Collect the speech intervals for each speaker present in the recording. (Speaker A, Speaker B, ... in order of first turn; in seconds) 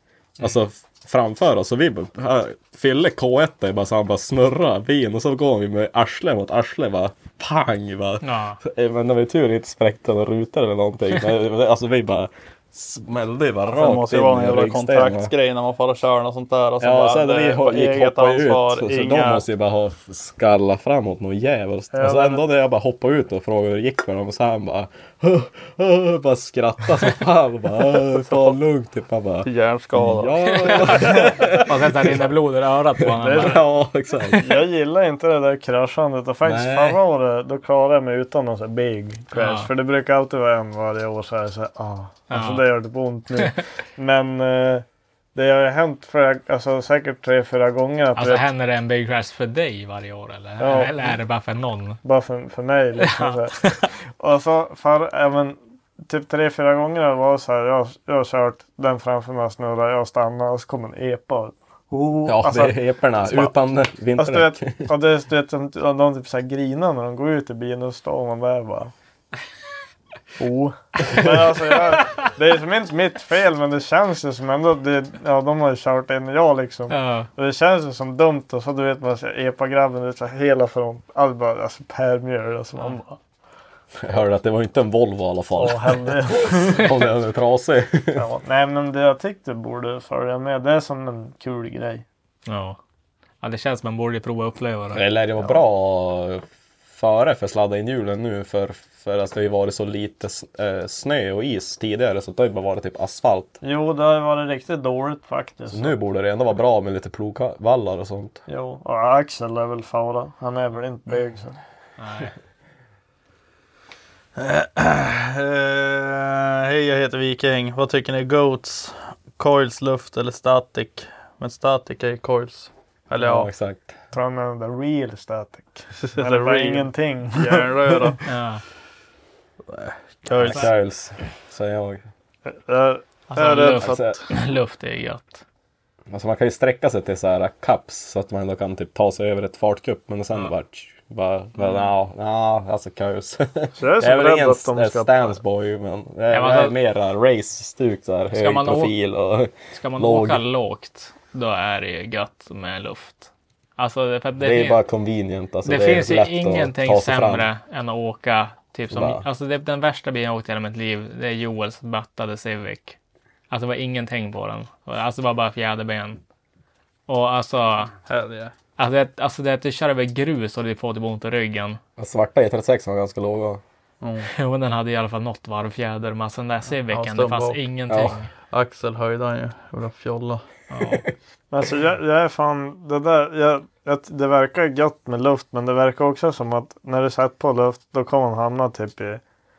Speaker A: 0.4-15.3, 16.8-32.1, 33.0-34.5, 36.4-37.0, 62.2-64.9, 84.0-88.2, 94.9-103.6, 105.7-108.4, 123.2-123.9, 130.3-132.1, 133.8-134.2, 136.1-150.4, 154.4-157.5, 158.9-159.2, 172.0-173.6, 177.9-178.2
Speaker B: 8.2-8.6, 30.8-33.6, 39.3-39.7, 42.3-42.6, 48.1-52.0, 53.0-53.9, 76.9-77.3, 92.5-92.8, 93.4-95.0, 112.0-112.3, 128.2-128.6, 133.3-135.4, 146.3-146.8, 148.3-148.9, 149.7-154.8, 155.6-163.0, 163.5-166.2, 167.1-167.9, 168.8-171.8, 174.2-178.3, 180.7-181.0
Speaker C: 13.7-19.4, 29.4-30.6, 114.3-123.5, 126.1-128.2, 129.7-130.7, 168.1-168.5, 174.0-174.3, 176.9-177.6, 178.5-180.4
Speaker D: 21.9-22.4, 33.2-33.6, 34.3-48.4, 50.6-51.0, 52.0-63.5, 64.2-68.9, 70.4-83.2, 85.5-86.9, 88.2-92.0, 103.6-106.0, 108.5-111.6, 124.1-128.1, 132.5-134.2, 143.8-145.4, 181.5-189.2